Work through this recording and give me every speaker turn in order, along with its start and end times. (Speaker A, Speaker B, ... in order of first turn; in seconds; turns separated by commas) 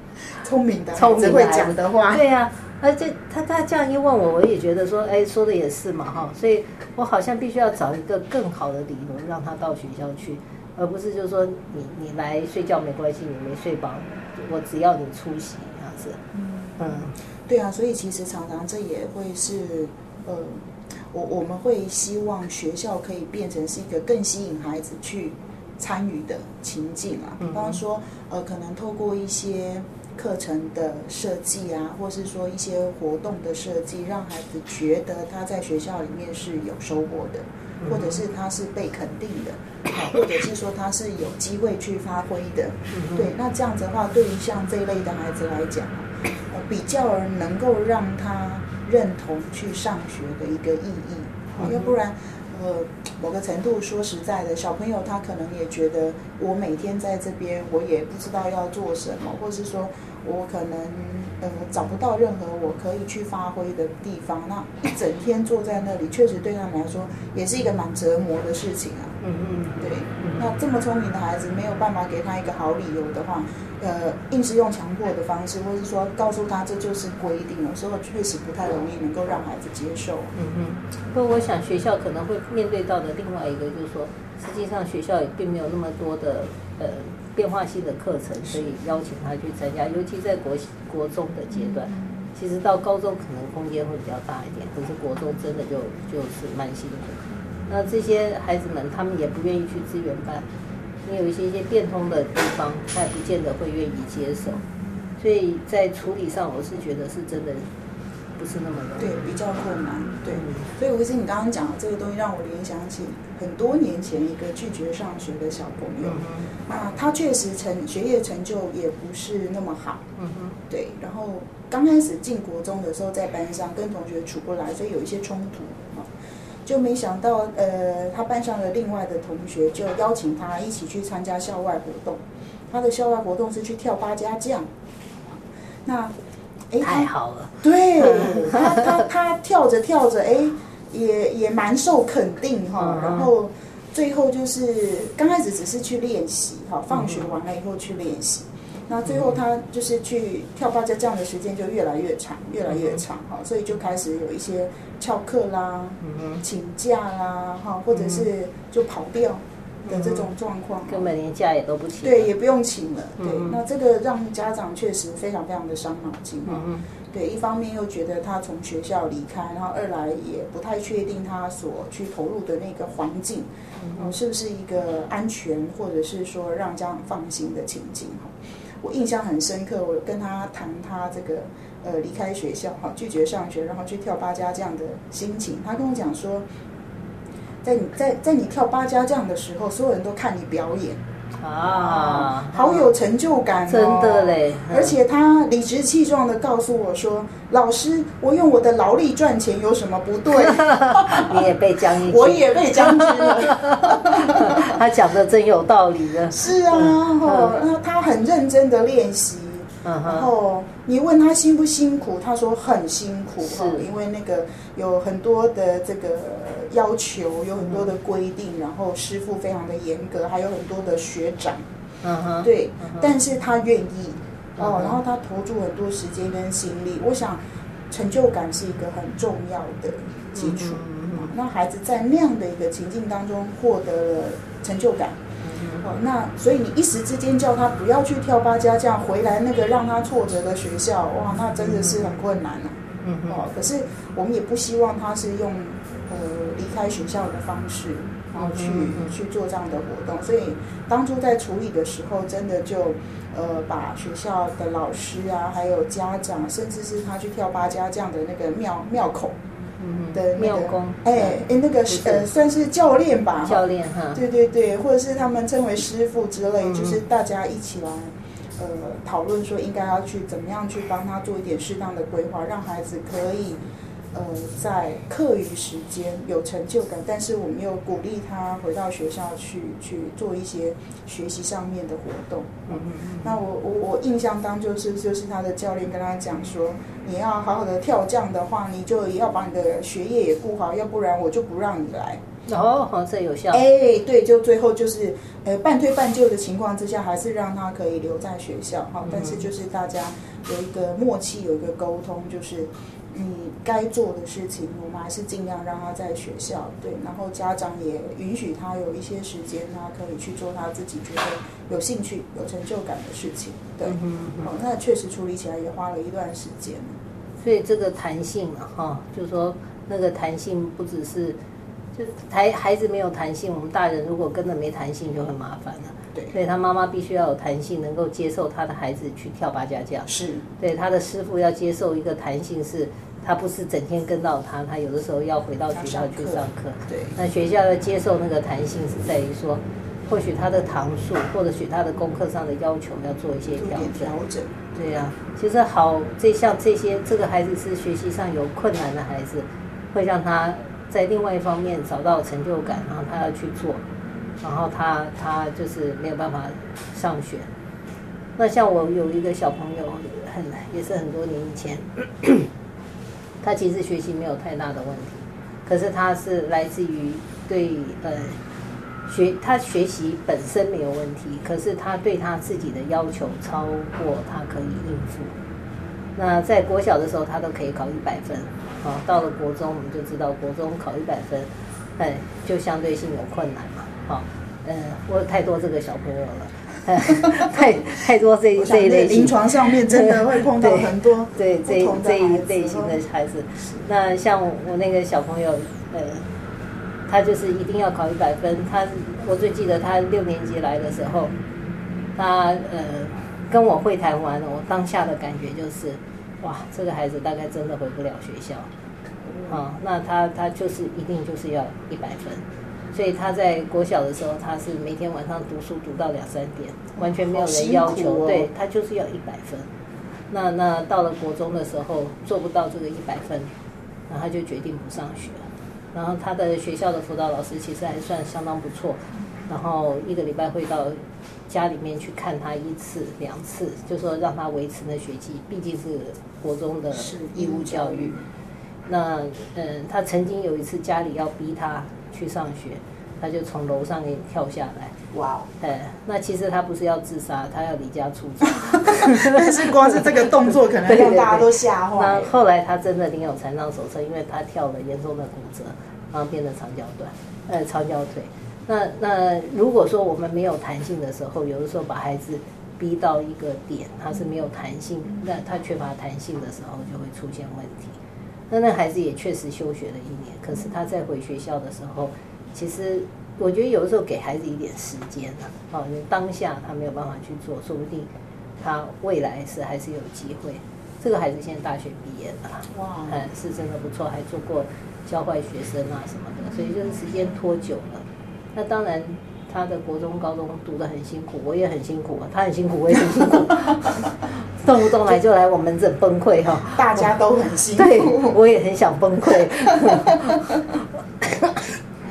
Speaker A: 0.4-2.2, Speaker B: 0.9-16.2, Speaker A: 16.3-69.2, Speaker B: 16.8-17.1, Speaker B: 27.4-27.8, Speaker B: 37.8-38.2, Speaker B: 42.9-43.3, Speaker B: 51.5-51.9, Speaker B: 69.2-70.5, Speaker A: 69.8-80.3, Speaker B: 80.3-100.5, Speaker B: 101.0-104.6, Speaker B: 105.2-107.7, Speaker B: 108.4-109.3, Speaker A: 109.0-120.0, Speaker B: 110.3-110.7, Speaker B: 116.0-116.5, Speaker B: 120.2-120.6, Speaker A: 120.7-126.1, Speaker A: 126.6-134.7, Speaker A: 135.3-136.2, Speaker A: 136.7-161.1, Speaker B: 136.8-139.0, Speaker B: 142.8-143.3, Speaker B: 146.9-147.3, Speaker B: 149.1-149.4, Speaker B: 152.7-153.0, Speaker B: 156.0-156.4, Speaker B: 157.9-158.3, Speaker B: 159.8-160.3, Speaker B: 160.9-162.3, Speaker A: 162.0-186.5, Speaker B: 163.2-163.6, Speaker B: 166.5-166.8, Speaker B: 173.8-174.1, Speaker A: 187.6-191.0, Speaker B: 191.4-192.9, Speaker A: 191.6-204.8, Speaker B: 193.7-195.0, Speaker B: 200.4-207.6, Speaker A: 206.3-221.6, Speaker B: 209.8-210.3, Speaker B: 213.4-213.9, Speaker B: 217.6-217.9, Speaker B: 222.0-223.1, Speaker A: 222.4-235.2, Speaker B: 224.6-225.0, Speaker B: 230.3-231.3, Speaker B: 235.4-235.8, Speaker A: 235.8-259.4, Speaker B: 241.6-242.2, Speaker B: 243.0-243.4, Speaker B: 248.4-249.1, Speaker B: 259.8-262.2, Speaker A: 260.1-273.6, Speaker B: 263.4-264.2, Speaker B: 266.6-267.0, Speaker A: 274.1-292.2, Speaker B: 282.7-283.4, Speaker B: 292.5-293.6, Speaker A: 293.5-316.9, Speaker B: 299.0-299.4, Speaker B: 313.8-314.5, Speaker B: 317.4-321.4, Speaker B: 321.9-344.1, Speaker A: 330.1-330.4, Speaker A: 335.7-337.1, Speaker A: 343.6-344.5, Speaker B: 344.7-353.8, Speaker B: 354.4-357.5, Speaker B: 358.4-362.5, Speaker B: 363.4-368.4, Speaker B: 369.1-375.3, Speaker B: 376.1-396.2, Speaker A: 388.6-393.0, Speaker B: 397.1-401.3, Speaker B: 402.1-408.7, Speaker A: 409.2-409.6, Speaker B: 409.5-419.7, Speaker A: 417.0-418.5, Speaker B: 420.3-423.5, Speaker B: 424.1-438.2, Speaker A: 436.9-438.2, Speaker B: 438.9-444.9, Speaker A: 445.1-445.5, Speaker B: 445.6-468.0, Speaker A: 448.6-452.3, Speaker B: 468.5-501.7, Speaker A: 482.7-483.3, Speaker A: 496.7-498.4, Speaker A: 499.7-500.6